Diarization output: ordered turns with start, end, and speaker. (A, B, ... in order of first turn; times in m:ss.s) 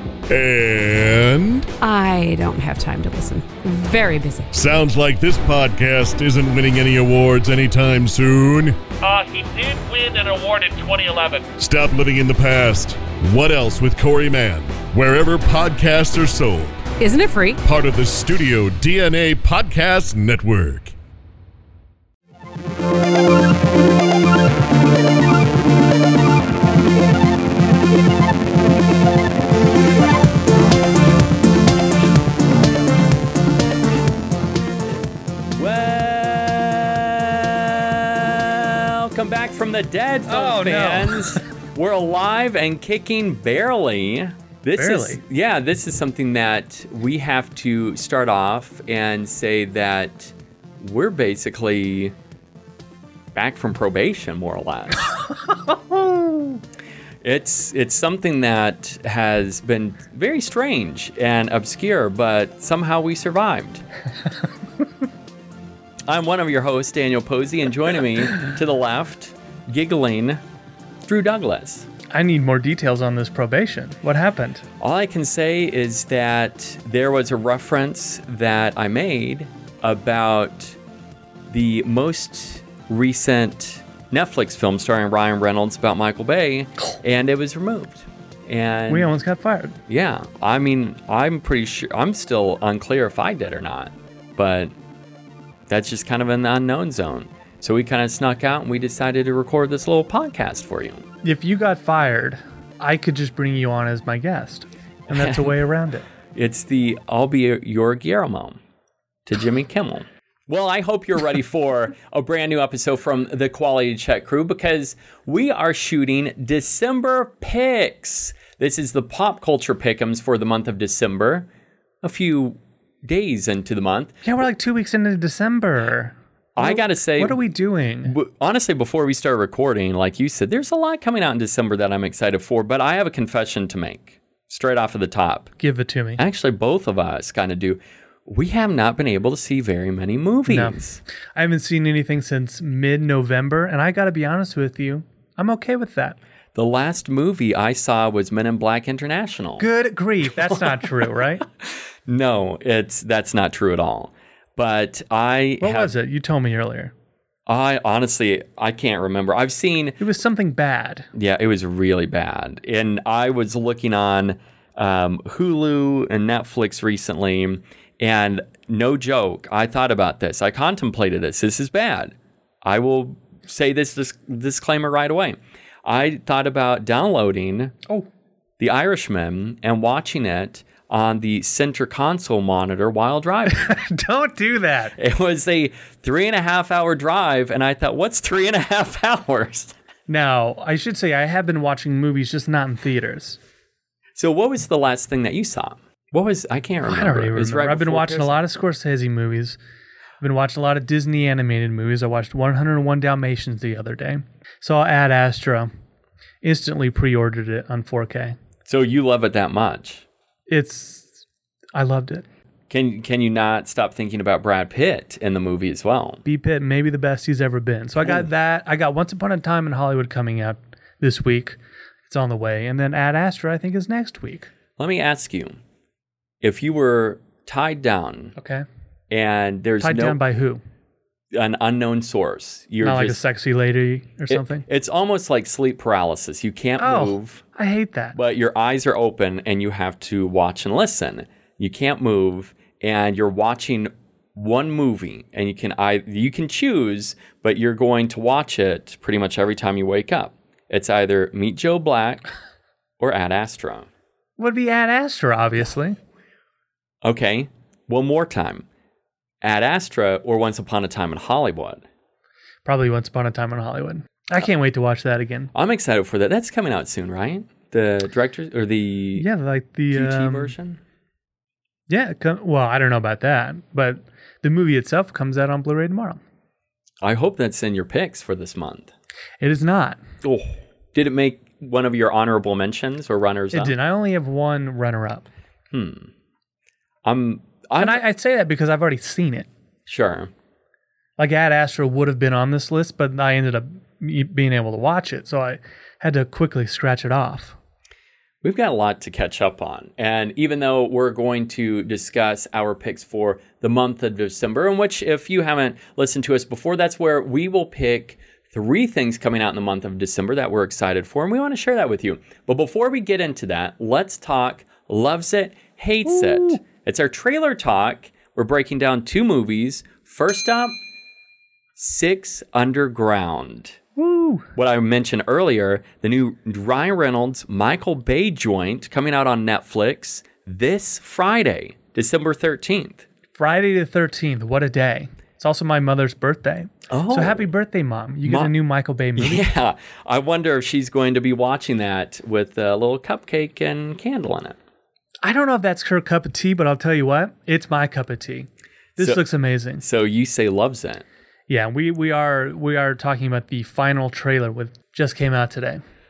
0:00.3-0:01.7 A
0:01.8-0:04.5 B
0:04.5-0:08.8 A
0:09.0-0:11.5 C
0:11.6-0:16.8 A
0:17.0-0:17.6 B
0:17.6-0:20.9 A
0:35.5-0:52.1 D
0:40.3-0:41.4 E
0:44.8-0:45.2 E
0:53.3-0:55.1 D
0:55.7-0:56.6 E
0:57.2-1:03.8 D
1:06.0-1:10.4 D
1:11.0-1:11.9 D
1:12.1-1:14.6 E
1:14.8-1:20.8 D
1:21.5-1:29.1 D
1:28.9-1:29.8 E
1:29.9-1:34.7 D
1:35.7-1:41.0 D
1:41.2-1:46.0 E
1:45.1-1:45.5 D
1:46.3-1:48.6 D
1:49.2-2:01.5 D
2:02.0-2:04.2 D
2:04.2-2:08.1 E
2:06.6-2:07.4 D
2:08.0-2:15.5 D
2:15.6-2:16.2 E
2:16.2-2:21.0 D
2:20.5-2:20.8 E
2:21.4-2:26.2 E
2:26.5-2:29.6 D
2:29.6-2:31.4 E
2:30.4-2:30.8 D
2:31.6-2:35.9 D
2:35.6-2:36.9 E
2:37.5-2:40.0 D
2:40.0-2:41.1 E
2:41.1-2:57.8 D
2:58.6-3:03.8 D
3:03.5-3:04.9 E
3:05.0-3:09.7 D
3:10.1-3:13.4 E
3:14.2-3:18.4 D
3:16.8-3:19.6 E
3:20.2-3:25.7 E
3:26.4-3:28.4 E
3:28.6-3:30.0 D
3:30.5-3:31.2 E
3:31.7-3:32.2 E
3:32.7-3:36.2 D
3:36.2-3:44.5 E
3:44.8-3:45.6 D
3:46.4-3:48.4 D
3:48.4-3:48.6 E
3:49.1-3:50.2 D
3:49.8-3:50.6 E
3:51.3-3:53.2 D
3:52.8-3:54.6 E
3:54.3-3:57.4 D
3:56.8-3:58.2 E
3:58.1-4:12.3 D
4:13.0-4:13.9 D
4:14.4-4:16.0 E
4:17.0-4:18.6 D
4:19.4-4:21.8 D
4:22.6-4:25.5 E
4:25.5-4:29.3 D
4:29.2-4:30.5 E
4:29.9-4:30.8 D
4:31.9-4:36.2 E
4:37.0-4:38.9 D
4:39.4-4:40.0 E
4:40.2-4:43.7 D
4:43.5-4:45.3 E
4:45.7-4:46.1 D
4:47.0-4:48.0 D
4:47.8-4:49.5 E
4:49.9-4:50.3 D
4:51.2-4:57.6 E
4:58.4-5:20.8 D
5:16.0-5:16.6 E
5:21.8-5:23.8 D
5:24.0-5:24.5 E
5:24.5-5:33.0 D
5:33.4-5:39.5 E
5:36.9-5:37.5 D
5:38.2-5:38.5 D
5:39.2-5:44.6 D
5:45.2-5:49.8 E
5:49.8-5:51.0 D
5:51.5-5:55.8 E